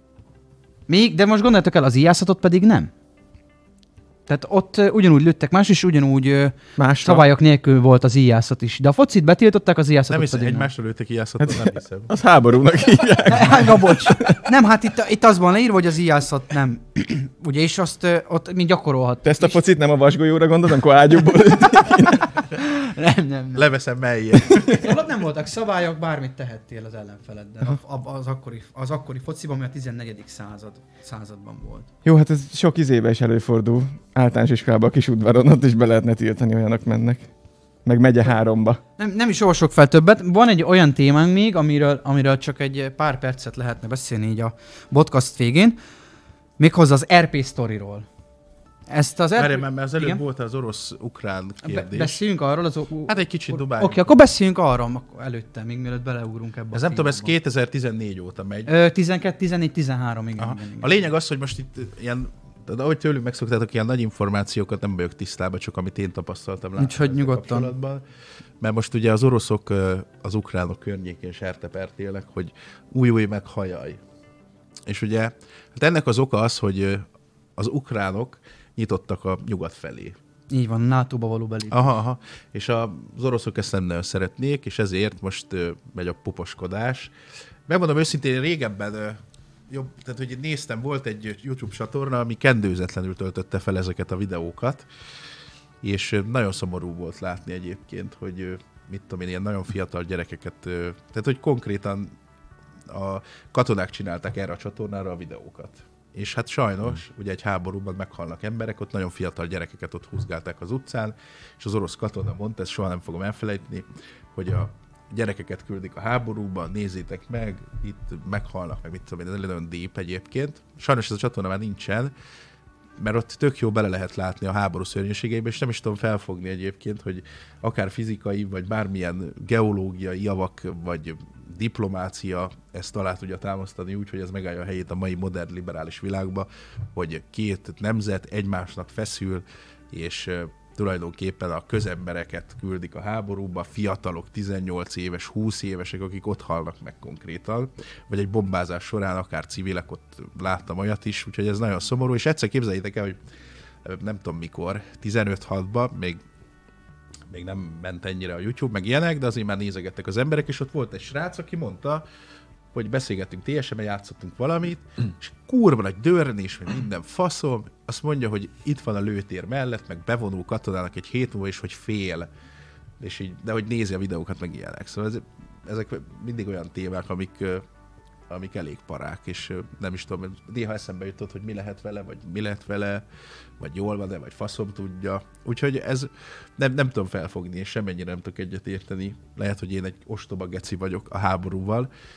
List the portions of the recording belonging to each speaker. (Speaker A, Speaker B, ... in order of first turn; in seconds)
Speaker A: 0.9-2.9, 4.3-10.7, 13.3-19.6, 22.5-23.7, 24.7-31.9, 39.0-45.8, 46.6-48.1, 48.9-50.2, 51.6-57.3, 58.7-61.1, 66.8-67.7, 80.5-82.0
Speaker B: 6.8-7.3, 11.4-14.4, 19.2-22.4, 32.0-37.3, 37.9-38.8
Speaker C: 10.1-12.1, 23.6-24.9, 49.4-52.2, 53.1-54.1, 56.7-58.7, 60.4-68.0, 68.6-74.0, 74.9-80.2, 81.7-87.1, 87.7-94.9, 95.8-102.2, 102.9-122.1, 123.0-153.2, 153.8-156.2, 157.3-162.0, 162.7-172.3, 173.0-177.7, 178.3-183.1, 183.6-191.9